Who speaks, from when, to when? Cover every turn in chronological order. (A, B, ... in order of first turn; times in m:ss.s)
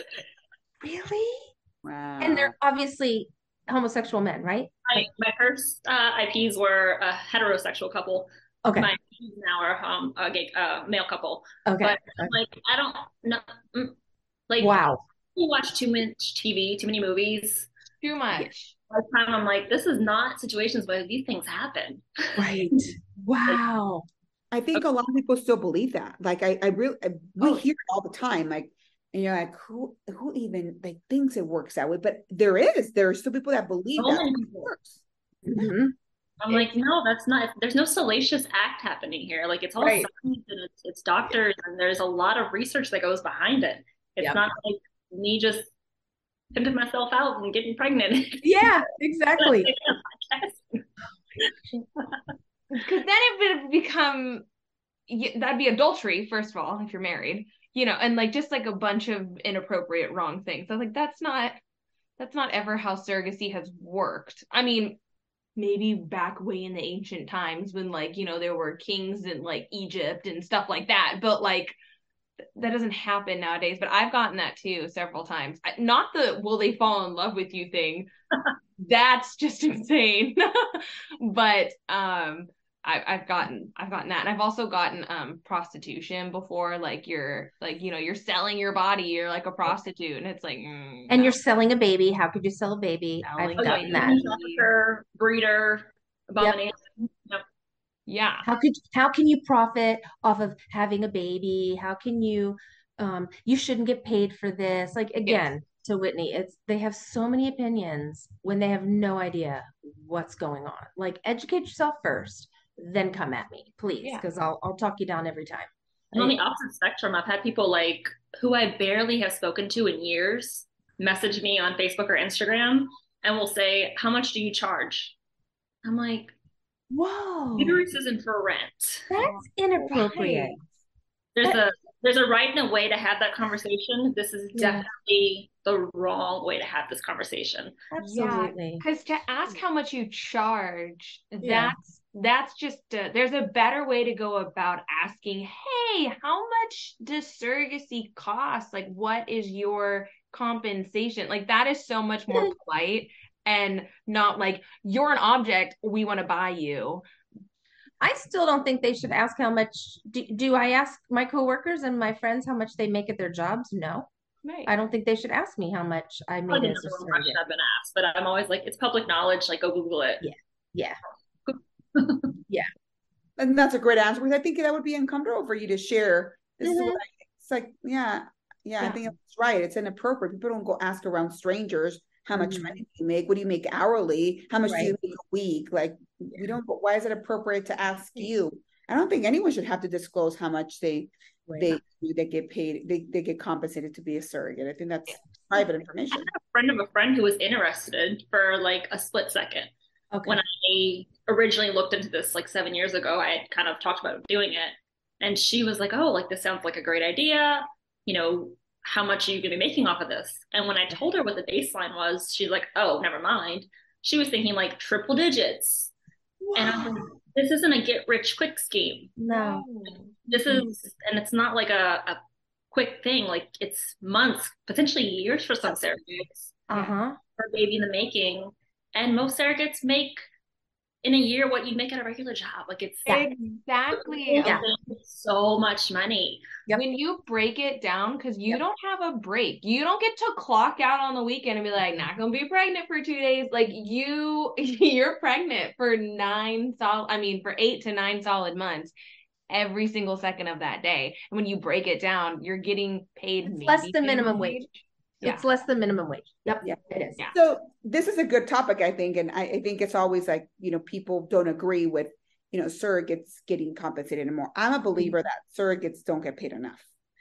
0:00.8-0:01.5 A
0:01.8-0:02.5 B
0:02.2-0:05.1 A
0:04.9-0:14.0 C
0:08.6-0:08.9 A
0:11.6-0:12.3 A
0:14.5-0:14.7 C
0:14.6-0:15.0 A
0:15.4-0:17.7 C
0:18.0-0:18.7 D
0:18.9-0:22.5 C
0:22.4-0:24.1 A
0:24.5-0:35.0 B
0:34.0-0:34.7 C
0:35.4-0:35.9 A
0:36.4-0:45.7 C
0:39.8-0:40.1 A
0:46.5-0:48.7 C
0:48.4-0:49.7 A
0:49.4-0:50.8 C
0:51.4-0:52.2 C
0:52.7-0:54.4 D
0:55.1-1:01.6 D
1:02.2-1:05.0 D
1:05.6-1:11.8 D
1:12.6-1:18.1 D
1:18.8-1:31.3 D
1:31.1-1:34.2 A
1:33.2-1:34.7 D
1:33.6-1:37.4 C
1:38.1-1:38.5 D
1:38.4-1:56.4 A
1:45.2-1:45.5 D
1:56.1-2:05.1 C
2:05.8-2:06.3 C
2:06.9-2:07.8 A
2:07.6-2:09.1 C
2:09.1-2:10.6 A
2:09.8-2:10.5 B
2:11.3-2:17.8 C
2:14.5-2:14.8 A
2:17.9-2:18.8 A
2:18.0-2:37.0 D
2:21.4-2:21.7 A
2:38.0-2:44.1 A
2:44.4-2:44.7 D
2:44.7-2:47.4 A
2:46.5-2:50.2 C
2:50.2-2:51.0 A
2:51.5-2:52.3 C
2:53.4-3:16.3 B
2:56.6-2:57.0 A
3:02.4-3:02.7 A
3:04.6-3:04.9 A
3:11.5-3:11.8 A
3:16.1-3:19.7 C
3:20.1-3:20.4 A
3:20.2-3:35.9 C
3:36.5-3:39.1 C
3:36.6-3:36.9 A
3:39.2-3:39.7 A
3:39.3-3:40.1 D
3:40.3-3:42.2 C
3:42.7-3:46.5 C
3:46.7-3:47.2 A
3:47.4-3:50.2 C
3:51.0-3:53.2 C
3:53.1-3:54.6 D
3:54.0-3:56.5 C
3:56.7-4:08.9 D
4:09.5-4:15.4 D
4:13.6-4:14.6 A
4:15.2-4:17.2 A
4:16.6-4:26.9 B